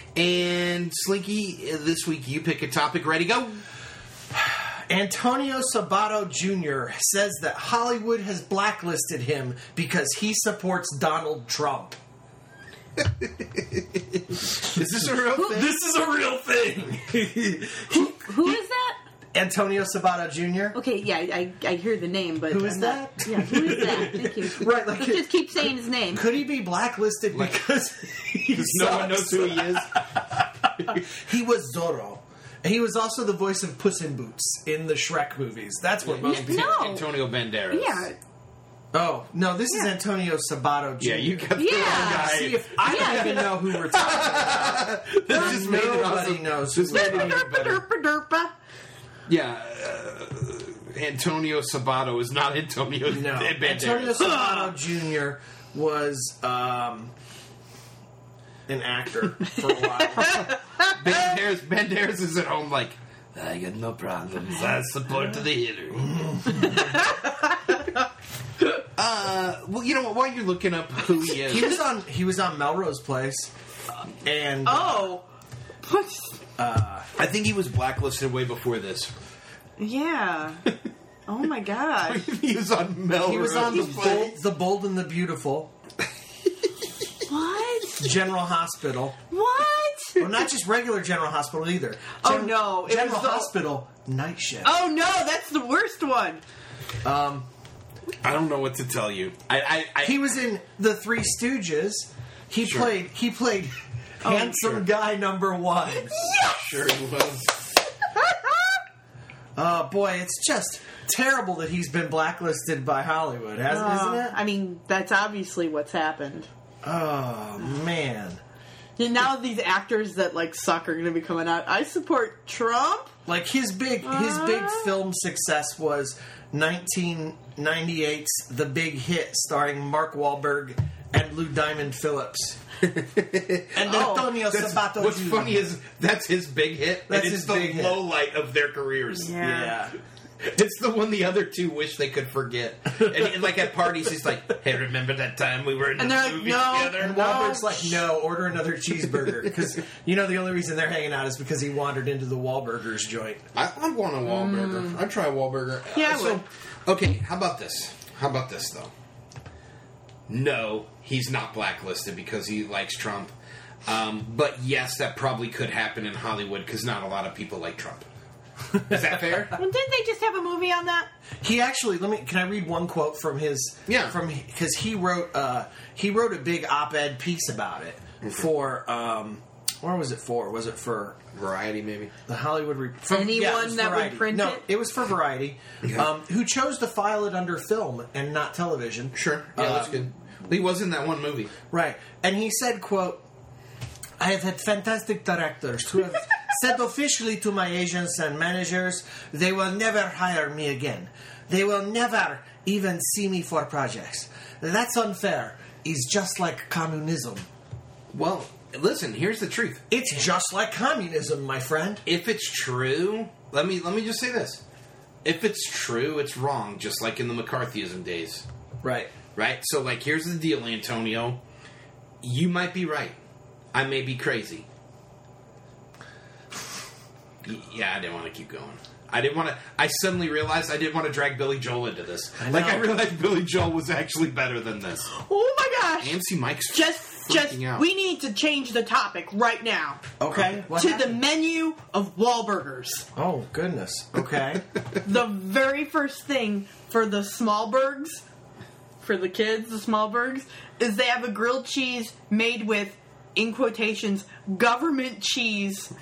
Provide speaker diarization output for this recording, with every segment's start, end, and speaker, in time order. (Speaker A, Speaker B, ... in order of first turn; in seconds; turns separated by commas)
Speaker A: 0.1-3.6, Speaker B: 4.3-12.0, Speaker A: 13.0-15.7, Speaker C: 15.3-15.6, Speaker B: 15.6-18.6, Speaker C: 17.9-19.0, Speaker B: 19.3-20.8, Speaker C: 20.7-26.3, Speaker B: 22.5-25.4, Speaker B: 26.1-36.8, Speaker A: 28.5-30.0, Speaker A: 30.8-31.0, Speaker A: 36.0-38.1, Speaker C: 36.2-37.2, Speaker C: 37.7-38.2, Speaker B: 38.9-47.4, Speaker A: 41.0-47.8, Speaker C: 41.5-43.5, Speaker C: 46.9-48.5, Speaker A: 49.3-54.3, Speaker B: 53.1-57.1, Speaker C: 54.2-54.8, Speaker B: 58.7-60.5, Speaker C: 60.2-61.0, Speaker A: 60.3-66.5, Speaker B: 66.0-67.1, Speaker C: 66.6-67.9, Speaker A: 69.0-71.8, Speaker B: 71.3-73.5, Speaker B: 74.2-75.1, Speaker C: 74.7-75.2, Speaker C: 75.8-76.4, Speaker B: 76.6-77.1, Speaker A: 77.2-79.1, Speaker C: 79.8-80.6, Speaker C: 81.3-82.2, Speaker A: 82.0-84.3, Speaker B: 83.2-85.7, Speaker C: 83.7-84.2, Speaker C: 87.3-88.2, Speaker B: 88.0-89.2, Speaker C: 89.3-90.3, Speaker B: 90.2-94.8, Speaker C: 92.2-93.5, Speaker C: 94.6-96.4, Speaker B: 97.0-97.5, Speaker A: 98.2-100.3, Speaker B: 100.0-106.4, Speaker A: 102.6-102.9, Speaker C: 104.2-104.6, Speaker C: 106.1-106.6, Speaker A: 106.4-107.6, Speaker C: 108.1-108.8, Speaker B: 109.6-114.4, Speaker C: 113.7-116.5, Speaker B: 116.8-118.4, Speaker C: 119.0-123.1, Speaker B: 123.3-132.6, Speaker C: 124.0-124.9, Speaker A: 132.8-139.4, Speaker B: 133.8-135.7, Speaker C: 133.8-134.3, Speaker B: 137.1-138.0, Speaker C: 139.2-139.8, Speaker B: 139.4-139.9, Speaker A: 140.4-147.5, Speaker C: 146.0-148.1, Speaker B: 147.0-153.5, Speaker A: 153.6-158.9, Speaker C: 154.2-155.0, Speaker C: 155.9-156.4, Speaker A: 160.3-163.3, Speaker A: 163.9-168.1, Speaker B: 168.8-169.5, Speaker A: 168.8-169.6, Speaker C: 169.6-171.1, Speaker B: 171.4-181.2, Speaker A: 173.9-174.2, Speaker A: 181.3-182.1, Speaker B: 182.3-190.1, Speaker C: 183.1-184.6, Speaker A: 189.1-191.5, Speaker B: 191.7-193.2, Speaker B: 194.2-207.5, Speaker A: 208.1-209.8, Speaker B: 209.9-212.0, Speaker A: 212.1-214.6, Speaker A: 215.2-218.4, Speaker B: 218.8-219.1, Speaker A: 219.3-221.4, Speaker A: 222.2-223.2, Speaker A: 223.7-224.7, Speaker A: 227.4-235.1, Speaker B: 232.4-232.9, Speaker C: 235.1-240.1, Speaker A: 236.0-237.9, Speaker B: 240.2-241.2, Speaker C: 240.7-243.1, Speaker B: 243.2-244.7, Speaker C: 245.0-248.2, Speaker C: 249.0-255.9